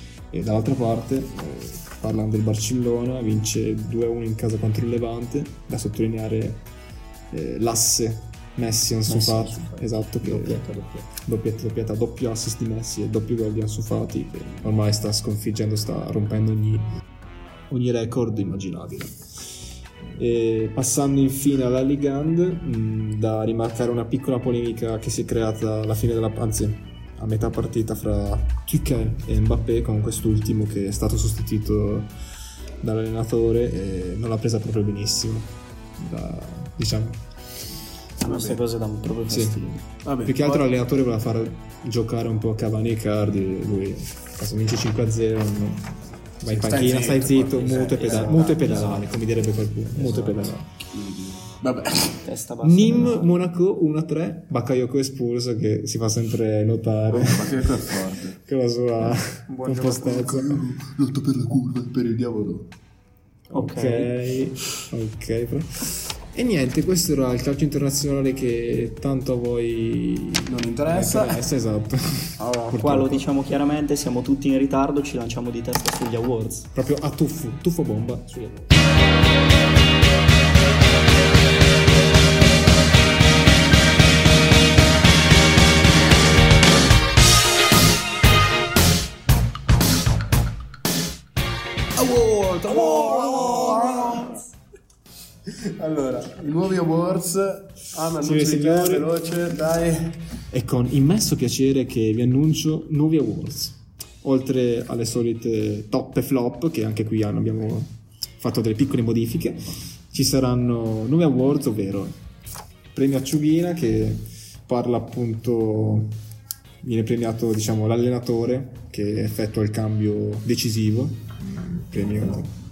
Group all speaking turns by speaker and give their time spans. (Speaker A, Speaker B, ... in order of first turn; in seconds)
Speaker A: 0.3-6.6, 7.3-16.9, 17.7-19.1, 20.1-32.1, 32.8-37.2, 39.3-39.6, 40.2-45.9, 46.4-50.7, 52.6-60.7, 63.5-73.2, 76.7-78.7, 98.2-99.1, 100.5-112.1, 112.9-116.1, 116.8-122.5
Speaker B: 9.1-11.1, 38.2-39.8, 47.6-49.0, 49.9-50.5, 52.2-53.3, 59.5-60.5, 63.5-64.1, 72.7-76.7
Speaker C: 38.2-38.6, 40.0-40.7, 46.5-48.9, 50.8-52.2, 57.1-58.4, 60.5-62.7, 70.5-71.4, 72.4-73.0, 92.0-94.4, 95.4-100.2